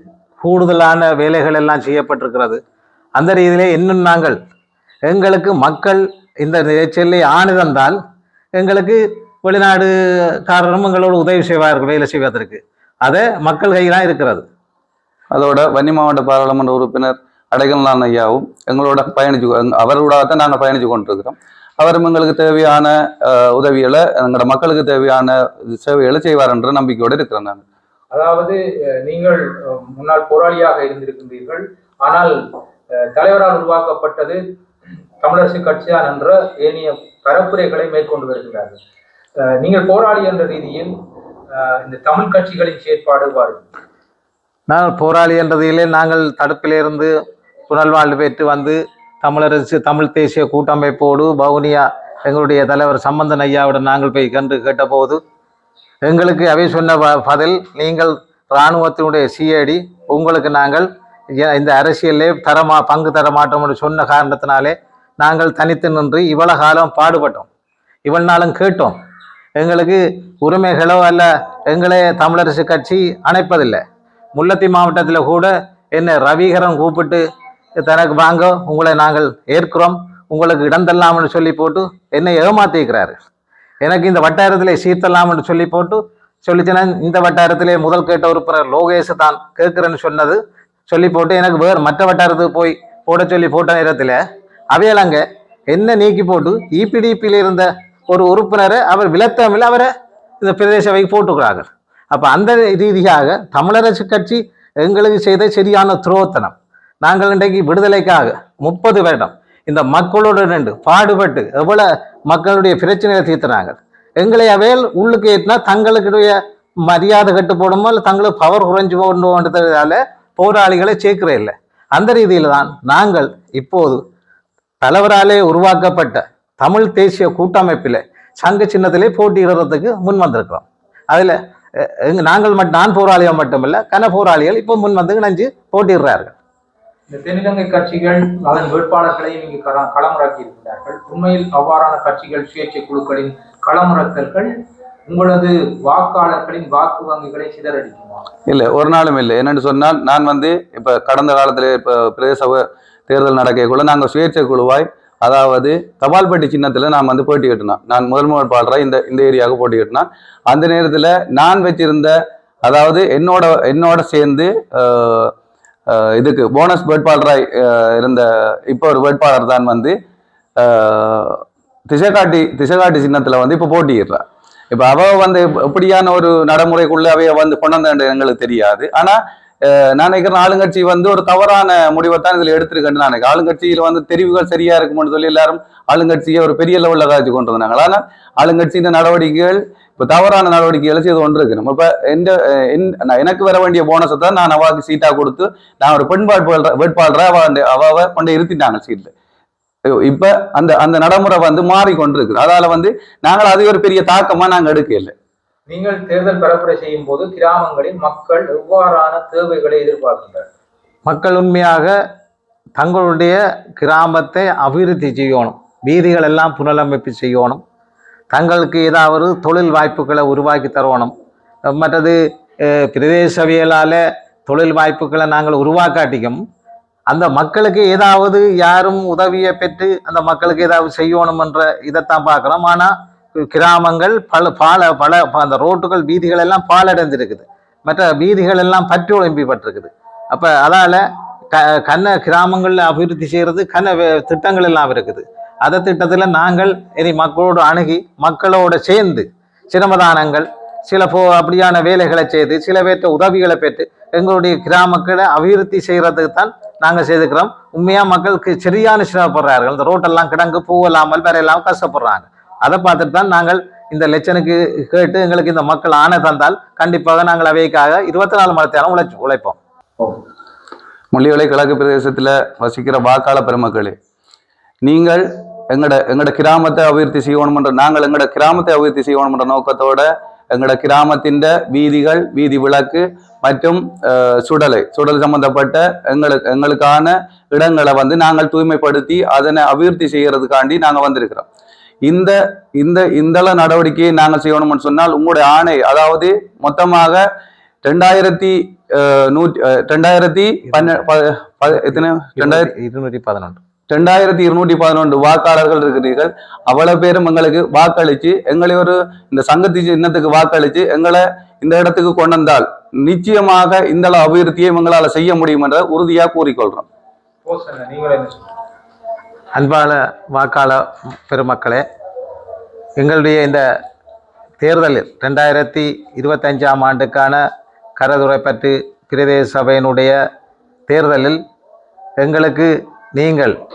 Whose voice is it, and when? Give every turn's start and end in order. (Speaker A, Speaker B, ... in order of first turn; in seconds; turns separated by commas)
Speaker A: 0.4-2.6, Speaker A: 3.1-4.4, Speaker A: 5.0-8.0, Speaker A: 8.5-14.4, Speaker B: 15.3-27.6, Speaker C: 28.1-32.4, Speaker C: 32.9-34.4, Speaker C: 35.2-38.8, Speaker C: 39.4-40.9, Speaker C: 41.5-43.7, Speaker A: 44.7-47.1, Speaker A: 47.7-55.2, Speaker A: 56.0-67.5, Speaker A: 68.0-69.0, Speaker A: 69.5-77.2, Speaker A: 77.8-83.2, Speaker A: 83.8-94.2, Speaker A: 94.7-124.0, Speaker A: 124.8-136.3, Speaker C: 137.1-144.5, Speaker C: 145.1-148.2, Speaker B: 148.5-162.1, Speaker B: 162.6-165.3, Speaker B: 165.9-169.9, Speaker B: 170.6-199.1, Speaker B: 200.0-205.1, Speaker C: 205.7-210.4, Speaker A: 211.1-211.9, Speaker A: 212.8-217.6, Speaker A: 218.3-221.1, Speaker A: 221.7-226.4, Speaker A: 227.1-269.6, Speaker B: 271.1-273.9, Speaker B: 274.8-291.4, Speaker B: 292.1-297.2, Speaker B: 297.8-302.7, Speaker A: 301.7-303.6, Speaker B: 303.9-316.8, Speaker C: 317.4-318.5, Speaker A: 319.5-321.8, Speaker A: 323.0-323.7, Speaker A: 324.6-327.4, Speaker A: 328.0-330.2, Speaker A: 330.9-331.4, Speaker A: 332.2-333.6